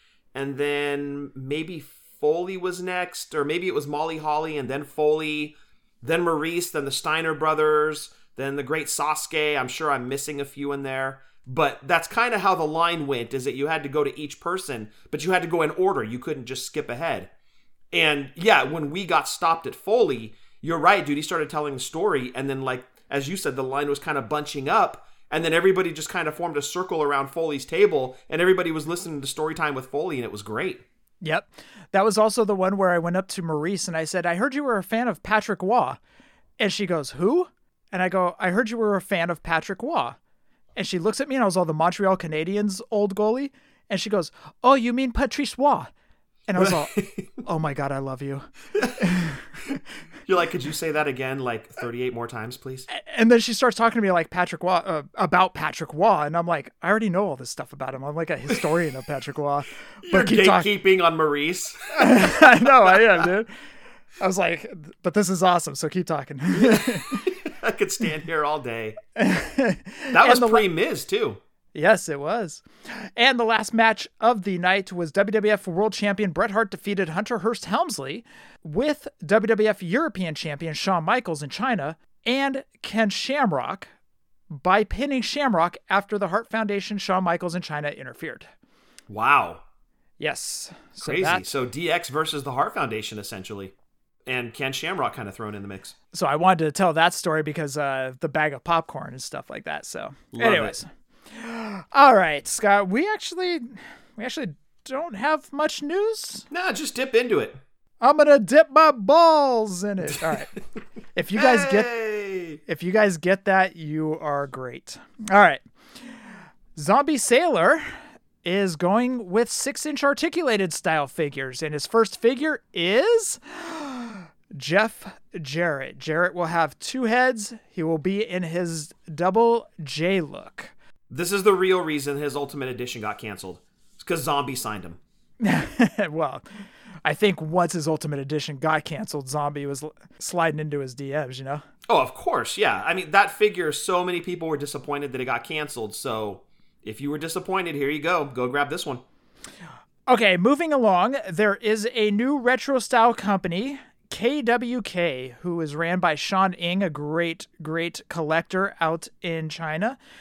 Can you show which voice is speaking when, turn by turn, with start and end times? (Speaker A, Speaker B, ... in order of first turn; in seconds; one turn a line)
Speaker A: 0.3-17.3
Speaker A: 17.9-30.8
Speaker B: 31.2-36.0
Speaker B: 36.6-40.2
Speaker B: 40.8-45.9
Speaker B: 46.5-48.5
Speaker A: 46.6-47.3
Speaker A: 48.7-49.0
Speaker B: 49.0-49.4
Speaker A: 49.7-52.9
Speaker B: 52.9-60.7
Speaker A: 60.0-63.2
Speaker B: 61.9-63.5
Speaker B: 64.2-67.3
Speaker A: 66.5-69.0
Speaker B: 69.2-70.7
Speaker A: 70.1-71.4
Speaker B: 71.7-83.9
Speaker B: 84.5-88.5
Speaker A: 89.1-89.6
Speaker B: 90.2-91.5
Speaker A: 91.0-93.7
Speaker A: 94.2-95.9
Speaker B: 96.1-106.5
Speaker A: 100.3-100.8
Speaker A: 106.5-107.6
Speaker B: 108.0-110.5
Speaker B: 111.1-111.9
Speaker A: 111.4-112.6
Speaker B: 112.7-115.6
Speaker B: 116.7-117.9
Speaker B: 118.4-130.7
Speaker A: 131.1-135.0
Speaker B: 135.4-136.4
Speaker B: 137.0-141.6
Speaker A: 141.9-149.0
Speaker B: 150.1-160.0